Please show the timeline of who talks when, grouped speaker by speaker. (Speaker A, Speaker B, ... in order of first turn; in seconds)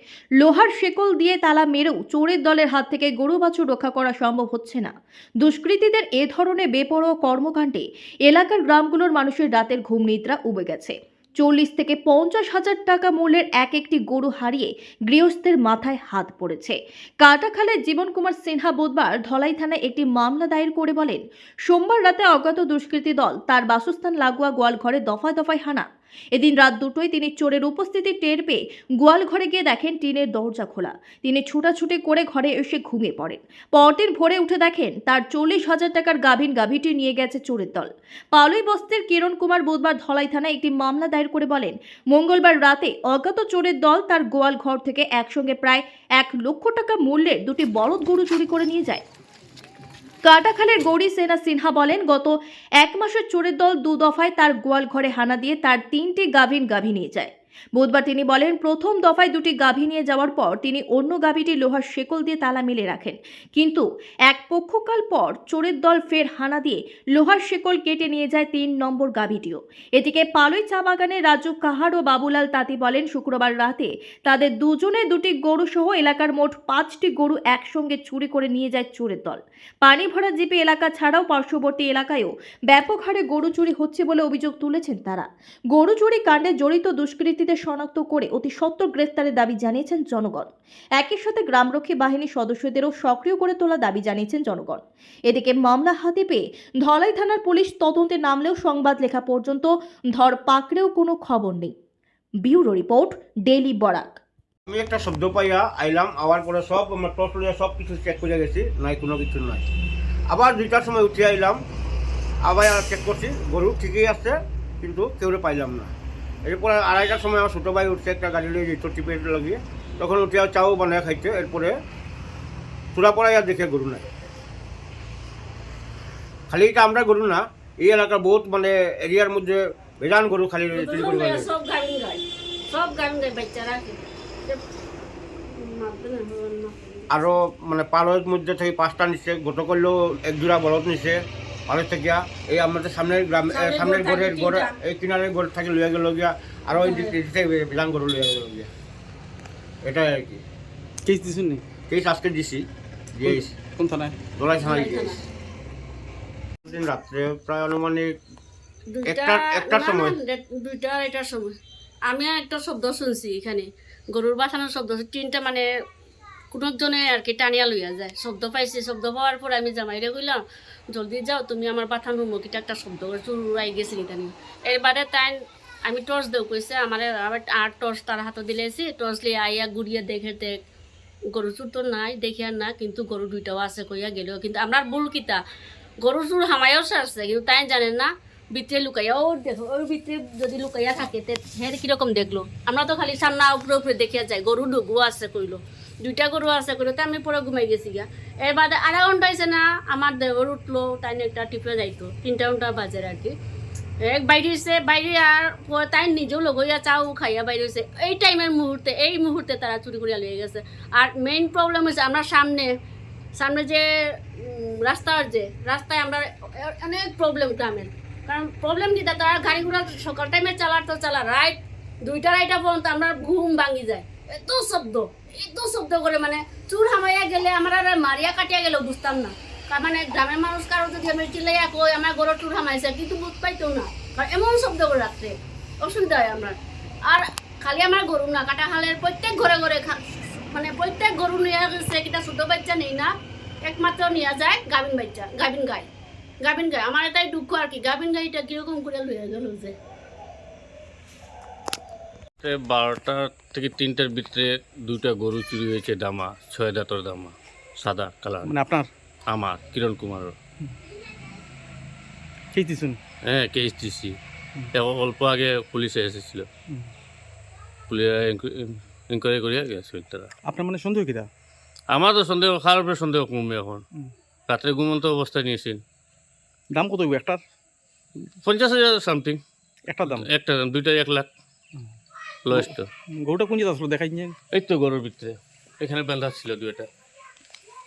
Speaker A: 0.4-49.0, 50.2-101.7, 102.4-104.2
Speaker B: 104.7-109.6, 110.3-111.6, 112.4-115.9, 116.5-121.7, 122.9-124.1, 126.5-131.5, 137.1-148.7, 149.8-150.4, 151.9-153.5, 154.4-155.2, 156.7-158.1, 159.1-160.2
Speaker C: 130.8-134.6, 135.5-137.3, 143.5-144.8, 146.8-147.2, 154.6-155.2, 158.9-161.5, 162.1-165.7, 166.5-175.3, 175.9-180.6, 181.3-185.4, 186.0-203.3, 204.1-212.7, 213.4-213.8, 214.4-236.6, 237.1-240.0, 240.5-243.1, 243.7-245.9, 246.4-249.8
Speaker D: 151.1-151.6, 153.2-154.2, 258.4-258.9, 262.5-263.0, 270.5-271.3, 276.7-277.4, 279.9-280.3, 282.5-284.4
Speaker E: 252.4-258.5, 259.3-260.3, 263.3-264.1, 264.8-266.5, 267.9-270.3, 271.9-273.8, 274.5-275.8, 278.4-279.4, 280.1-281.3, 282.5-282.9, 284.5-286.9